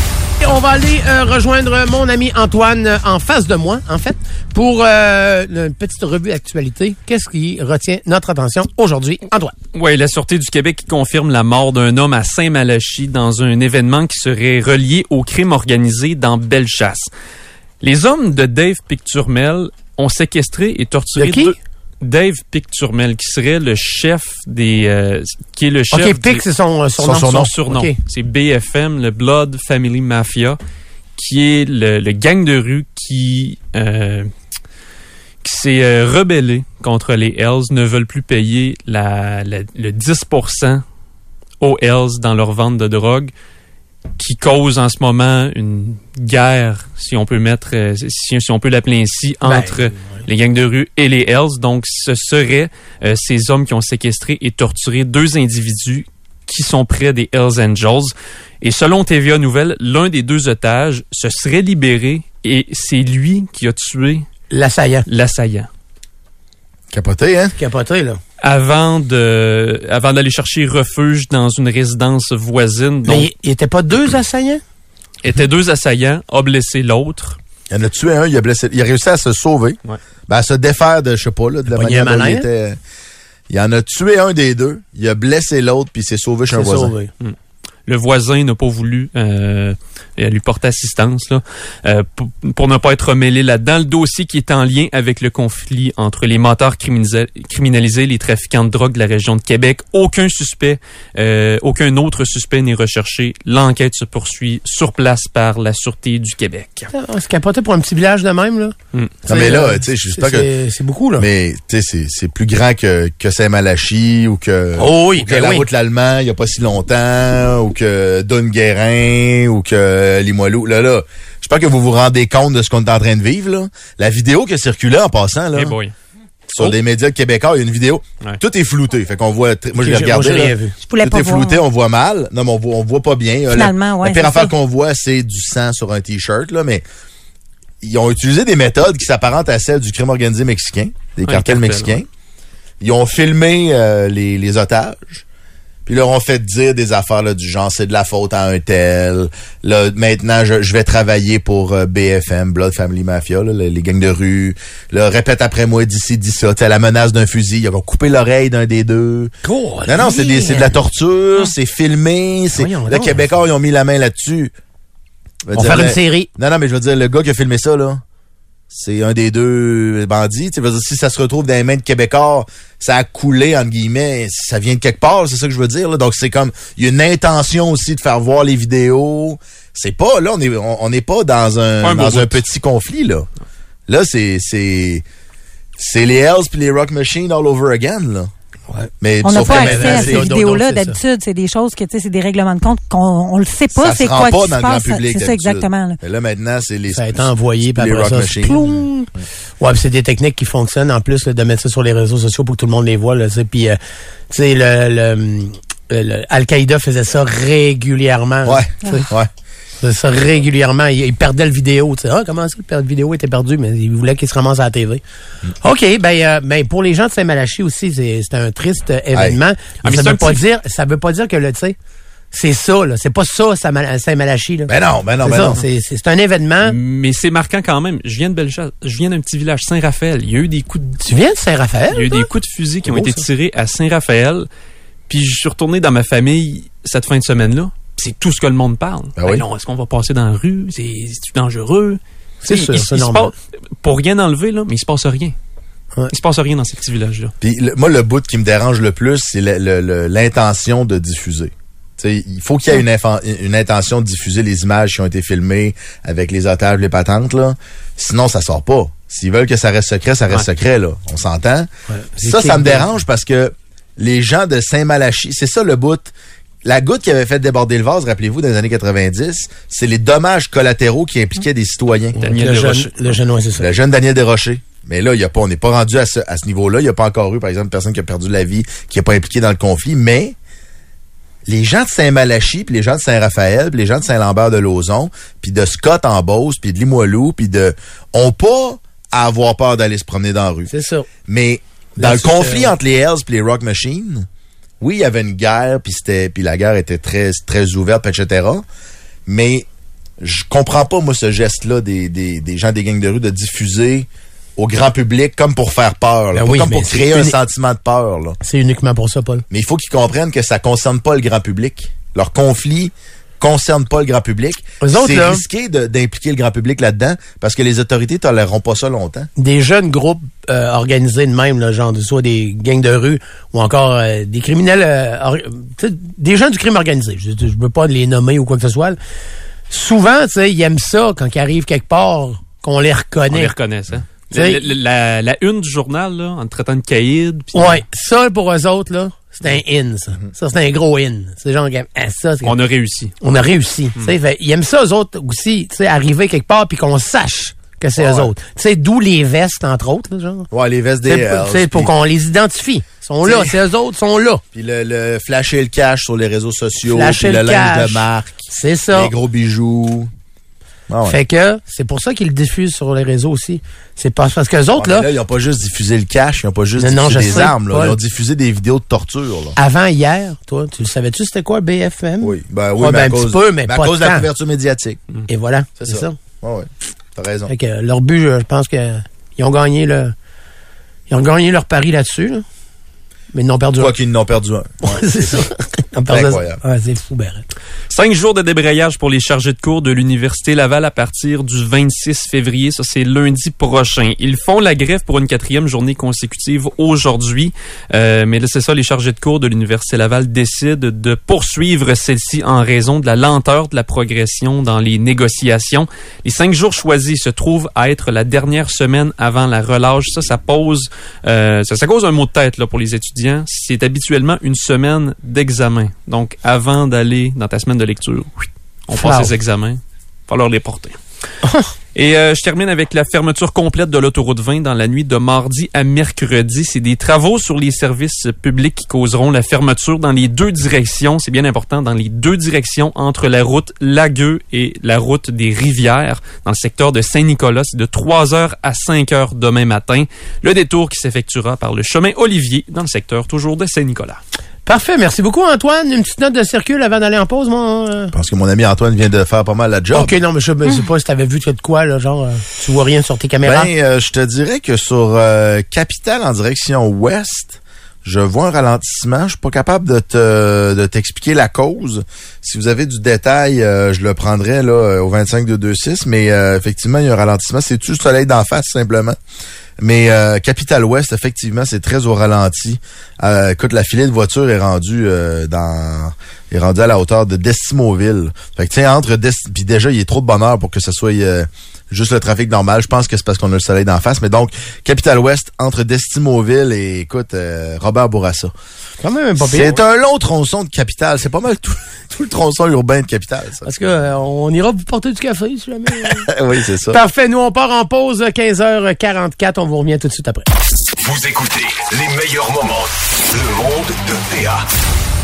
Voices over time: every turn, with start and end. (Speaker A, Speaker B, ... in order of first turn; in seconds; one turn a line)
Speaker A: 0.4-9.5
Speaker B: 9.7-17.1
Speaker B: 17.8-26.4
Speaker A: 21.1-21.5
Speaker A: 25.9-27.9
Speaker C: 27.0-27.5
Speaker B: 27.2-30.6
Speaker B: 31.2-34.3
Speaker B: 35.4-40.8
Speaker B: 41.6-43.3
Speaker B: 44.2-64.2
Speaker A: 49.4-49.8
Speaker A: 64.5-65.1
Speaker B: 65.0-65.7
Speaker C: 66.9-67.5
Speaker A: 67.6-68.2
Speaker B: 68.4-73.3
Speaker A: 73.0-74.6
Speaker B: 75.2-77.4
Speaker C: 77.7-82.8
Speaker A: 81.7-82.5
Speaker C: 83.5-86.9
Speaker A: 86.5-87.1
Speaker B: 87.9-106.9
Speaker A: 106.9-108.7
Speaker C: 109.2-110.5
Speaker A: 109.2-111.3
Speaker C: 111.2-125.7
Speaker A: 114.8-115.7
Speaker B: 125.5-125.9
Speaker C: 126.5-136.8
Speaker A: 129.8-130.8
Speaker D: 130.8-131.6
Speaker D: 133.5-134.5
Speaker C: 137.8-142.1
Speaker B: 141.2-142.0
Speaker C: 142.8-145.2
Speaker C: 145.8-159.3
Speaker A: 159.4-160.8
Speaker C: 159.8-164.5
Speaker A: 162.5-163.2
Speaker C: 165.4-168.0
Speaker A: 165.5-166.3
Speaker C: 168.7-183.3
Speaker B: 181.8-182.4
Speaker C: 183.9-185.0
Speaker C: 185.8-188.3
Speaker A: 188.7-191.0
Speaker C: 189.0-190.2
Speaker D: 189.2-196.0
Speaker C: 193.7-198.8
Speaker A: 196.9-203.8
Speaker A: 204.3-209.1
Speaker C: 208.4-209.3
Speaker A: 209.8-215.0
Speaker A: 215.6-221.8
Speaker C: 219.1-219.4
Speaker B: 219.8-220.4
Speaker A: 222.3-226.8
Speaker C: 224.7-225.6
Speaker B: 226.6-231.0
Speaker A: 231.0-232.3
Speaker B: 231.9-234.5
Speaker A: 232.9-233.2
Speaker B: 235.1-245.3
Speaker C: 239.2-239.4
Speaker A: 242.4-243.3
Speaker B: 246.1-247.3
Speaker C: 247.4-266.1
Speaker A: 261.9-262.9
Speaker C: 266.6-272.1
Speaker A: 272.1-273.7
Speaker B: 272.2-273.2
Speaker C: 273.6-280.4
Speaker C: 281.4-290.7
Speaker A: 290.7-291.1
Speaker C: 291.3-294.3
Speaker A: 292.0-292.7
Speaker C: 294.8-298.6
Speaker C: 299.2-299.7
Speaker C: 300.2-308.4
Speaker A: 306.3-307.4
Speaker A: 308.4-309.4
Speaker C: 309.5-319.3
Speaker A: 314.8-315.4
Speaker A: 319.4-329.0
Speaker A: 329.7-333.5
Speaker B: 333.3-337.8
Speaker A: 334.3-334.6
Speaker A: 337.5-342.6
Speaker B: 342.4-343.1
Speaker A: 343.2-350.5
Speaker C: 348.0-348.3
Speaker C: 350.5-351.9
Speaker A: 351.1-354.4
Speaker C: 353.2-353.6
Speaker C: 354.5-360.1
Speaker A: 356.9-359.1
Speaker C: 360.9-361.2
Speaker A: 361.0-365.1
Speaker C: 364.7-369.6
Speaker A: 366.8-367.9
Speaker A: 369.6-374.3
Speaker C: 372.2-375.0
Speaker A: 375.3-376.1
Speaker C: 375.8-377.5
Speaker A: 377.5-380.1
Speaker A: 381.1-382.4
Speaker A: 383.3-383.9
Speaker C: 383.8-385.5
Speaker A: 384.8-387.5
Speaker C: 386.1-386.6
Speaker B: 387.9-421.0
Speaker A: 418.9-419.3
Speaker A: 421.4-421.7
Speaker B: 421.9-444.2
Speaker A: 444.6-448.1
Speaker C: 448.1-450.1
Speaker A: 449.9-453.7
Speaker C: 453.4-469.1
Speaker C: 469.8-488.5
Speaker A: 489.0-489.8
Speaker C: 489.4-493.8
Speaker A: 493.6-496.3
Speaker C: 496.0-497.0
Speaker A: 496.9-500.5
Speaker E: 500.9-504.6